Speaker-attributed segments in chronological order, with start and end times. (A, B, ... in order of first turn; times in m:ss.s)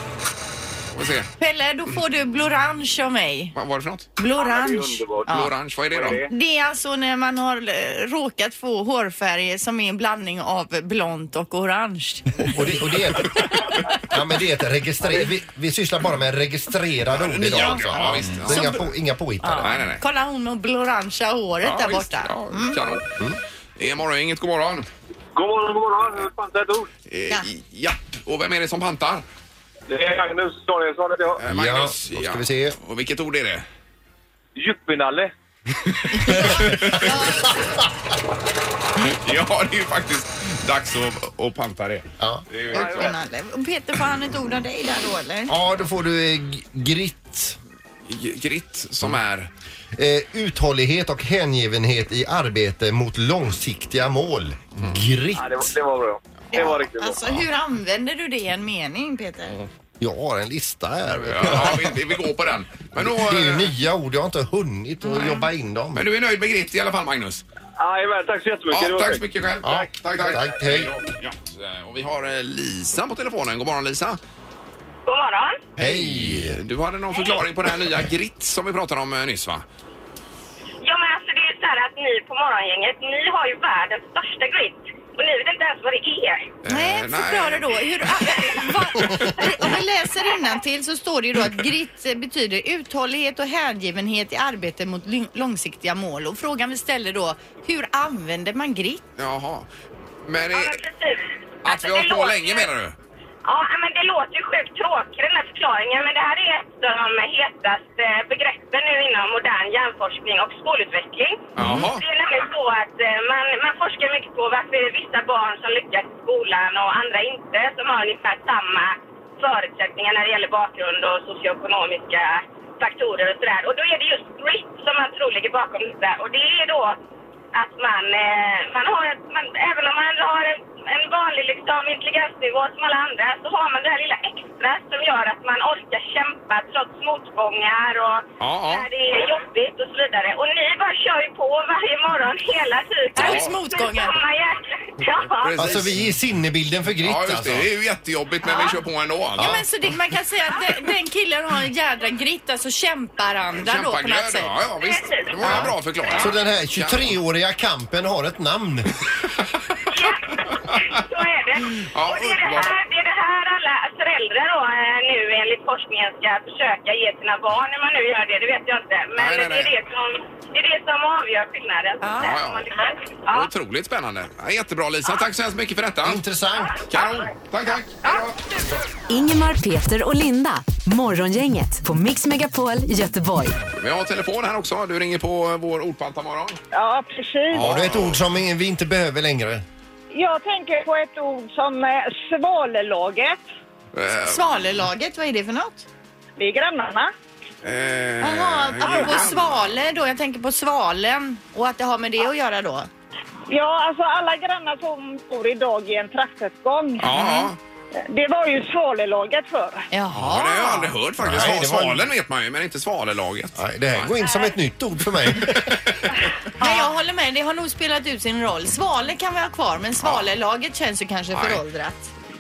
0:00.9-0:01.3 A
0:01.4-0:03.5 B
0:03.5-0:04.1 A
0:04.2-0:05.5 B
0:04.3-0:06.3 C
0:05.3-0:06.2 A
0:06.3-0:12.5 B
0:12.4-0:19.8 D
0:17.1-0:18.8 A
0:17.5-0:17.8 B
0:18.5-0:18.8 B
0:19.4-0:22.8 B
0:19.6-0:20.0 A
0:21.6-0:23.1 A
0:23.8-0:24.9 A
0:25.3-0:26.9 C
0:27.1-0:29.2 A
0:29.9-0:31.4 C
0:31.4-0:33.6 A
0:31.4-0:32.8 D
0:34.6-0:35.3 C
0:35.9-0:37.1 A
0:36.2-0:37.6 B
0:36.3-0:37.0 D
0:39.0-0:43.1 A
0:42.2-0:42.4 D
0:42.7-0:45.5 B
0:42.7-0:43.1 C
0:45.5-0:47.6 D
0:48.0-0:49.5 A
0:50.0-0:55.7 D
0:55.3-0:57.2 C
0:56.5-0:59.6 B
1:00.0-1:02.1 D
1:01.2-1:03.7 A
1:03.0-1:06.0 D
1:05.1-1:05.4 B
1:05.9-1:07.4 A
1:07.8-1:09.2 C
1:08.7-1:14.2 A
1:09.6-1:10.9 D
1:15.0-1:15.6 E
1:15.8-1:19.6 A
1:15.8-1:16.6 D
1:20.8-1:26.5 E
1:26.6-1:27.8 A
1:26.6-1:39.0 B
1:39.2-1:39.7 A
1:40.2-1:40.8 A
1:40.5-1:42.7 E
1:41.6-1:42.9 A
1:43.4-2:07.0 E
1:51.6-1:52.0 A
2:07.5-2:25.8 E
2:18.4-2:18.9 A
2:23.1-2:24.1 B
2:23.2-2:23.5 A
2:25.4-2:26.0 A
2:25.6-2:27.7 D
2:27.0-2:29.6 A
2:28.4-2:28.8 B
2:29.4-2:29.6 D
2:29.4-2:34.5 B
2:33.6-2:37.1 A
2:34.8-2:36.2 E
2:35.4-2:38.9 D
2:39.9-2:53.5 E
2:41.7-2:42.7 A
2:49.2-2:49.7 A
2:52.0-2:52.3 B
2:52.2-2:52.6 A
2:53.3-2:56.2 A
2:56.0-2:56.8 D
2:56.9-2:58.4 A
2:59.1-3:03.6 F
3:03.7-3:06.6 A
3:06.7-3:07.6 G
3:07.5-3:08.2 A
3:07.6-3:09.6 D
3:10.1-3:13.4 G
3:13.9-3:14.4 A
3:14.2-3:15.9 B
3:16.4-3:17.1 G
3:17.6-3:19.7 A
3:18.2-3:22.9 B
3:23.5-3:27.2 G
3:27.0-3:27.6 A
3:27.1-3:27.5 B
3:28.0-3:29.8 G
3:29.9-3:30.9 B
3:30.1-3:34.1 A
3:31.2-3:32.1 D
3:33.6-3:36.0 D
3:35.5-3:36.1 A
3:36.6-3:42.1 B
3:40.0-3:40.3 A
3:41.3-3:41.6 A